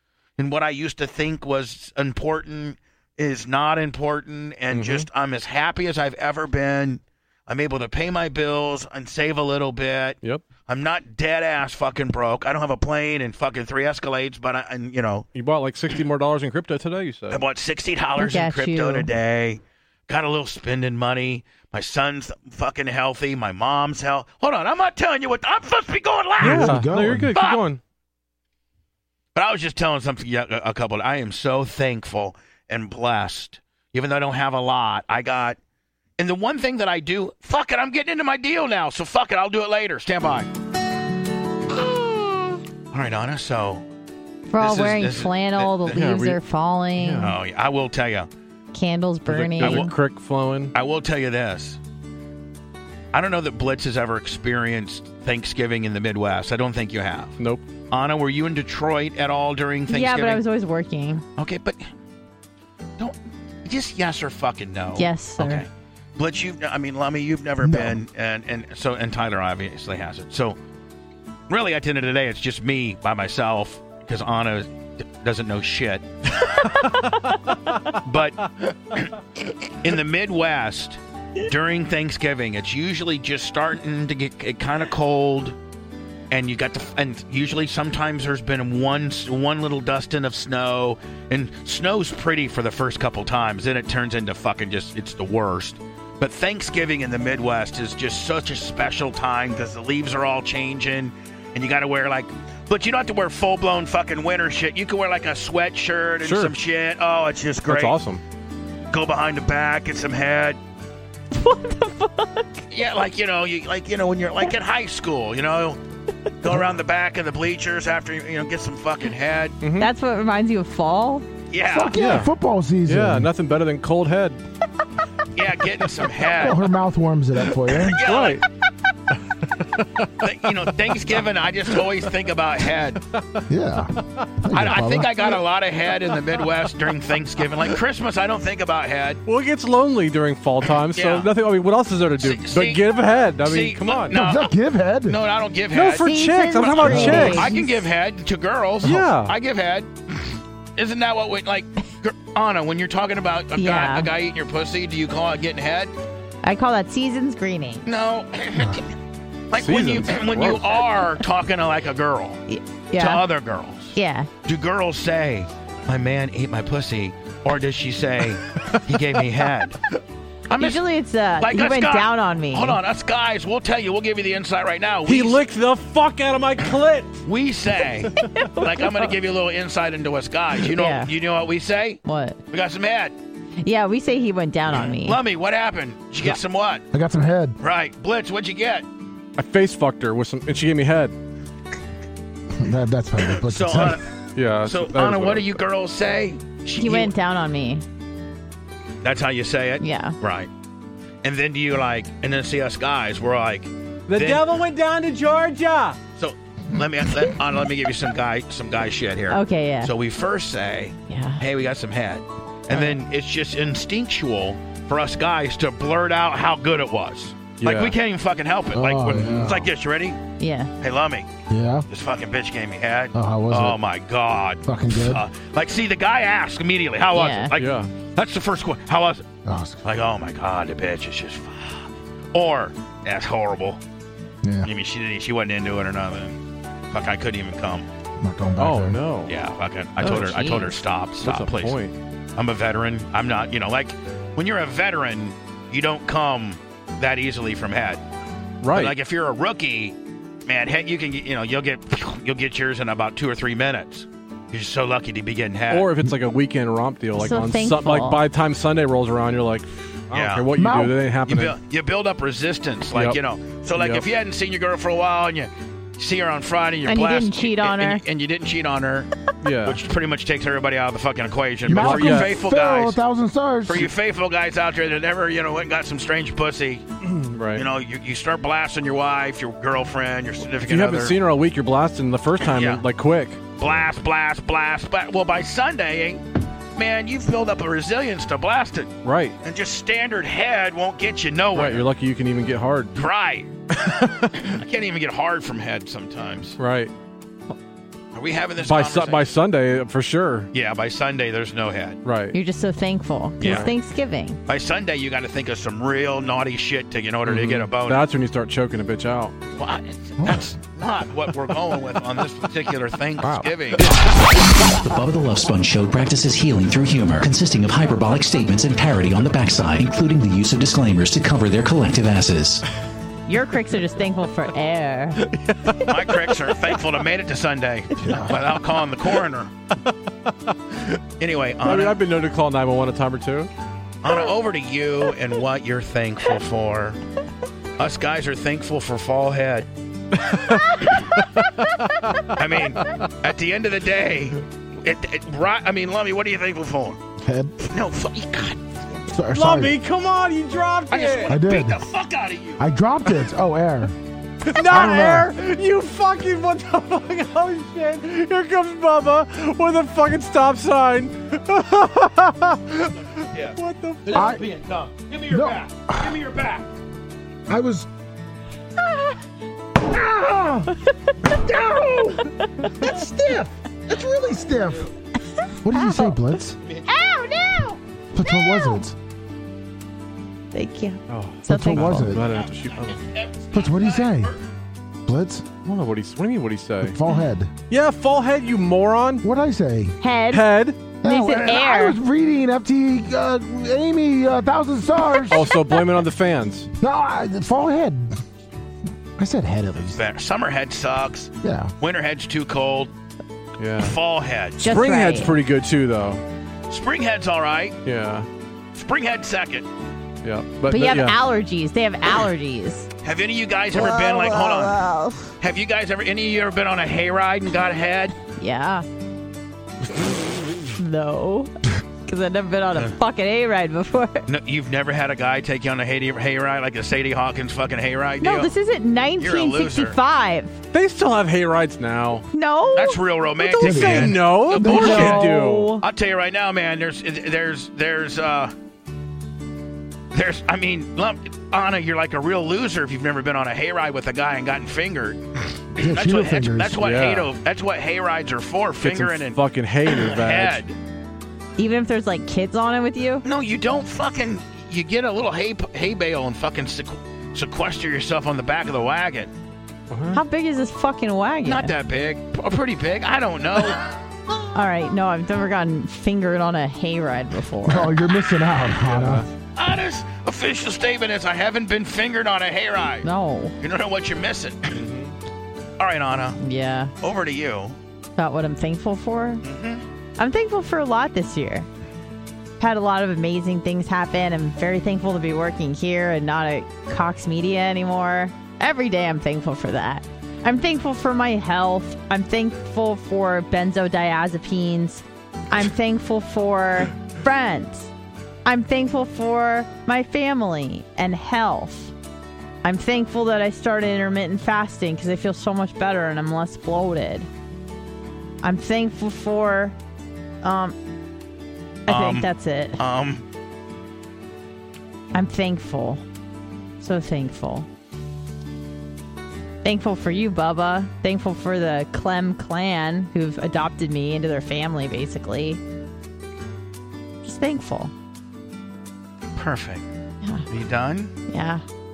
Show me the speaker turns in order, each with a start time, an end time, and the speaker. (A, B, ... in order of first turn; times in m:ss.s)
0:00.4-0:15.3 A
0:04.7-0:05.1 B
0:15.3-0:17.4 B
0:17.3-0:27.6 A
0:18.2-0:19.1 C
0:26.4-0:27.4 D
0:26.4-0:27.8 B
0:29.4-0:35.6 A
0:36.2-0:40.5 A
0:42.9-0:43.8 A
0:44.5-0:47.3 C
0:44.6-0:46.1 A
0:45.9-0:46.4 B
0:47.0-0:47.4 B
0:47.2-0:48.3 A
0:48.7-0:49.9 C
0:49.3-0:50.7 B
0:49.6-0:49.9 A
0:50.7-0:51.8 A
0:53.1-0:57.4 A
0:57.4-0:57.6 B
0:57.9-1:00.4 A
0:59.9-1:01.2 C
1:01.4-1:01.9 A
1:03.0-1:10.6 A
1:05.0-1:05.7 C
1:07.6-1:08.0 D
1:11.5-1:16.1 A
1:17.9-1:18.4 A
1:19.8-1:25.6 A
1:26.3-1:48.0 A
1:46.2-1:46.6 B
1:47.6-1:48.2 B
1:48.9-1:50.6 A
1:51.3-1:52.6 C
1:52.7-1:55.8 A
1:56.4-1:59.6 A
1:59.6-1:59.9 B
1:59.8-2:01.3 C
2:01.5-2:01.9 A
2:01.7-2:03.3 D
2:02.0-2:02.3 B
2:02.9-2:04.4 B
2:05.4-2:06.6 A
2:06.4-2:08.0 D
2:07.8-2:08.4 A
2:08.0-2:08.4 B
2:09.5-2:10.6 B
2:10.2-2:13.0 A
2:13.5-2:15.3 D
2:14.5-2:19.2 A
2:19.3-2:24.2 B
2:20.9-2:21.3 A
2:22.2-2:22.9 A
2:23.4-2:24.5 A
2:24.1-2:25.2 D
2:25.1-2:29.9 A
2:25.7-2:27.5 B
2:26.0-2:27.8 C
2:26.8-2:27.3 D
2:28.8-2:29.4 B
2:30.8-2:35.9 A
2:33.6-2:34.1 C
2:36.4-2:37.8 C
2:37.8-2:38.8 A
2:39.5-2:42.4 A
2:39.6-2:40.8 B
2:42.5-2:43.2 C
2:43.0-2:49.8 A
2:44.0-2:44.3 C
2:50.5-2:50.8 A
2:50.6-2:52.8 C
2:51.4-2:55.4 A
2:55.1-2:57.2 B
2:57.2-3:03.2 A
3:00.7-3:01.1 C
3:02.0-3:02.4 C
3:03.6-3:05.2 C
3:04.7-3:06.8 A
3:06.9-3:07.6 D
3:07.6-3:08.9 A
3:09.4-3:11.2 B
3:12.5-3:14.0 D
3:13.4-3:14.1 A
3:14.4-3:15.6 B
3:14.6-3:17.1 A
3:16.8-3:17.8 C
3:19.0-3:20.5 A
3:19.8-3:20.2 C
3:21.2-3:24.5 A
3:24.1-3:26.0 B
3:26.2-3:40.2 A
3:29.3-3:29.9 C
3:31.1-3:31.4 C
3:32.7-3:33.0 C
3:37.6-3:38.0 B
3:38.7-3:39.7 D
3:40.4-3:40.7 C
3:40.8-3:41.3 A
3:41.5-3:41.9 D
3:41.9-3:49.2 A
3:43.1-3:43.8 D
3:44.6-3:45.3 D
3:47.1-3:47.5 C
3:47.6-3:47.9 B
3:49.4-3:49.9 D
3:49.8-3:53.8 A
3:54.4-3:54.7 D
3:54.6-3:56.4 A
3:56.9-3:57.9 A
3:58.2-3:59.0 D
3:58.6-3:59.4 B
3:59.3-4:01.8 A
4:00.0-4:02.0 B
4:00.1-4:00.7 C
4:02.4-4:08.0 A
4:08.6-4:09.0 B
4:08.7-4:15.9 A
4:15.7-4:21.6 B
4:17.2-4:18.2 C
4:20.1-4:20.5 A
4:20.5-4:21.0 D
4:21.3-4:29.1 A
4:22.9-4:23.2 B
4:23.8-4:24.0 B
4:26.9-4:28.0 C
4:29.4-4:29.8 B
4:29.6-4:33.0 A
4:31.7-4:33.9 D
4:31.7-4:32.3 B
4:33.7-4:36.8 A
4:37.0-4:37.7 B
4:37.6-4:41.2 A
4:40.6-4:43.4 B
4:42.4-4:42.8 A
4:43.6-4:46.2 A
4:46.8-4:51.9 A
4:49.0-4:49.4 B
4:51.5-4:53.0 B
4:53.0-4:56.6 A
4:53.8-4:54.4 B
4:56.6-4:56.9 B
4:58.1-4:59.4 A
4:58.6-5:00.5 B
5:00.5-5:02.0 A
5:02.0-5:02.4 B
5:02.3-5:04.4 C
5:03.4-5:03.7 A
5:03.4-5:03.7 B
5:04.5-5:08.0 A
5:07.2-5:09.3 B
5:09.6-5:14.0 A
5:13.8-5:14.2 B
5:14.6-5:22.6 E
5:23.3-5:25.2 C
5:25.3-5:25.9 B
5:25.8-5:29.5 A
5:28.0-5:28.3 D
5:31.2-5:32.0 A
5:31.6-5:33.5 B
5:34.0-5:37.0 A
5:37.8-5:39.7 A
5:40.2-5:42.3 B
5:40.8-5:41.1 A
5:42.3-5:47.0 A
5:47.2-5:47.6 D
5:47.7-5:48.6 A
5:49.1-5:49.8 D
5:49.3-5:51.4 B
5:50.9-5:52.6 A
5:51.3-5:51.8 D
5:52.6-5:54.0 D
5:54.5-6:04.4 B
5:54.6-5:55.3 D
6:03.2-6:06.7 A
6:04.1-6:04.4 D
6:05.3-6:06.2 D
6:07.5-6:07.9 D
6:09.8-6:10.7 D
6:11.2-6:14.9 D
6:15.6-6:16.6 D
6:15.7-6:16.2 C
6:16.9-6:18.8 C
6:18.1-6:19.0 D
6:20.5-6:22.1 C
6:21.1-6:23.0 B
6:21.5-6:22.2 D
6:22.3-6:24.4 A
6:23.5-6:24.3 D
6:25.1-6:25.5 D
6:25.6-6:27.0 B
6:26.8-6:27.5 D
6:27.7-6:29.2 B
6:29.2-6:30.0 D
6:30.0-6:32.0 C
6:30.3-6:30.9 B
6:31.0-6:35.5 D
6:35.3-6:36.7 B
6:36.8-6:38.2 D
6:39.2-6:40.0 D
6:39.9-6:42.9 A
6:41.4-6:41.7 D
6:43.6-6:44.0 B
6:43.8-6:44.6 A
6:44.6-6:45.4 C
6:44.6-6:46.2 B
6:46.7-6:47.8 A
6:47.8-6:48.3 B
6:48.7-6:49.7 A
6:50.2-6:51.2 B
6:50.7-6:52.9 C
6:53.0-6:54.8 A
6:53.7-6:55.3 C
6:55.4-6:58.1 A
6:58.4-6:58.9 C
7:00.8-7:01.5 C
7:02.1-7:04.3 C
7:04.3-7:08.5 A
7:08.2-7:10.5 C
7:09.2-7:10.0 A
7:10.7-7:12.3 B
7:12.3-7:13.9 C
7:12.7-7:18.5 A
7:13.6-7:15.8 B
7:13.6-7:15.1 D
7:14.6-7:15.8 C
7:20.1-7:25.2 A
7:25.8-7:30.8 A
7:25.8-7:26.8 D
7:26.8-7:27.3 B
7:28.8-7:30.6 B
7:31.6-7:33.2 C
7:33.2-7:39.3 A
7:39.9-7:40.2 B
7:40.1-7:41.7 C
7:41.4-7:43.8 A
7:44.5-7:47.9 C
7:47.6-7:49.2 D
7:48.9-7:49.3 B
7:49.6-7:53.1 A
7:53.0-7:53.6 C
7:53.6-7:54.8 A
7:54.7-7:55.1 B
7:55.8-7:56.4 A
7:56.4-7:56.9 C
7:57.0-7:57.8 A
7:58.2-7:59.4 C
7:59.4-7:59.8 A
8:00.2-8:01.7 C
8:02.6-8:17.9 C
8:18.4-8:21.9 C
8:22.6-8:27.3 C
8:28.4-8:29.8 C
8:30.4-8:30.8 C
8:31.9-8:32.8 C
8:31.9-8:33.2 A
8:35.1-8:36.0 C
8:36.8-8:37.7 C
8:39.6-8:45.6 C
8:47.2-8:47.9 C
8:49.4-8:49.8 A
8:50.5-8:51.1 A
8:51.3-8:51.6 C